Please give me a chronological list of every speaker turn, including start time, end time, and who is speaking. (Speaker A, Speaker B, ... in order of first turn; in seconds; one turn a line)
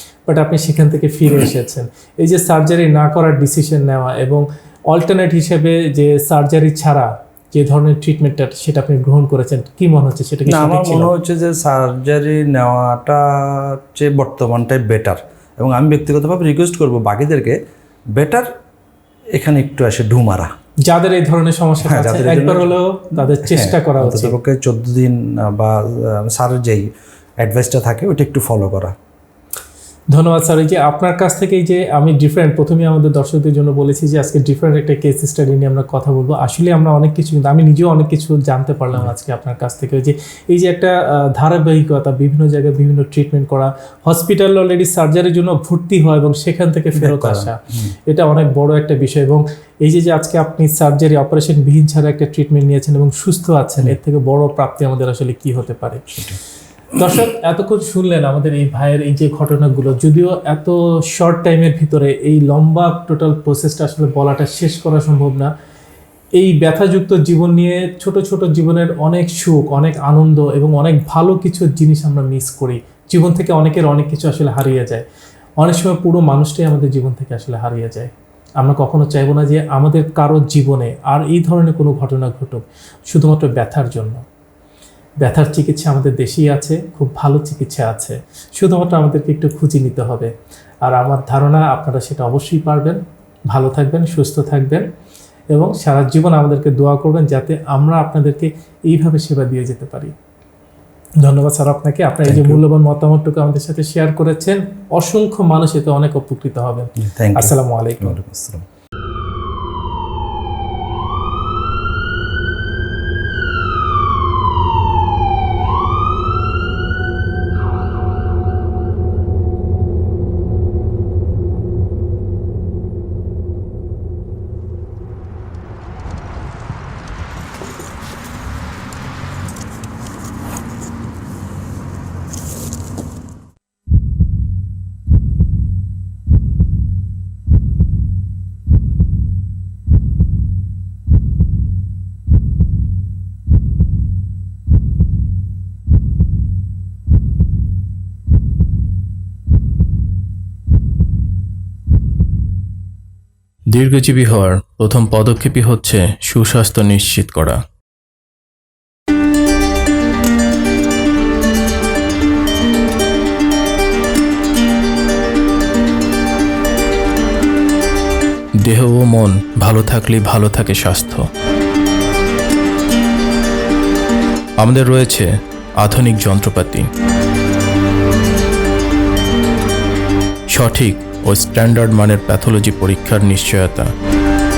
Speaker A: 0.3-11.1
Speaker B: 10.5-17.6
Speaker B: 18.2-18.5
Speaker B: 19.4-20.5
Speaker A: 20.9-24.4
Speaker B: 21.8-26.9
Speaker B: 27.4-28.9
Speaker A: 30.1-56.2
Speaker B: 46.9-47.9
Speaker A: 57.0-65.5
Speaker A: 66.4-75.0
Speaker A: 75.6-84.2
Speaker A: 85.2-90.3
Speaker A: 90.8-93.0
Speaker A: 93.5-94.9
Speaker A: 95.5-100.1
Speaker A: 101.2-108.2
Speaker B: 102.2-102.6
Speaker B: 107.0-108.7
Speaker C: 153.7-157.6
Speaker C: 168.6-171.3
Speaker C: 174.6-176.9
Speaker C: 180.5-183.9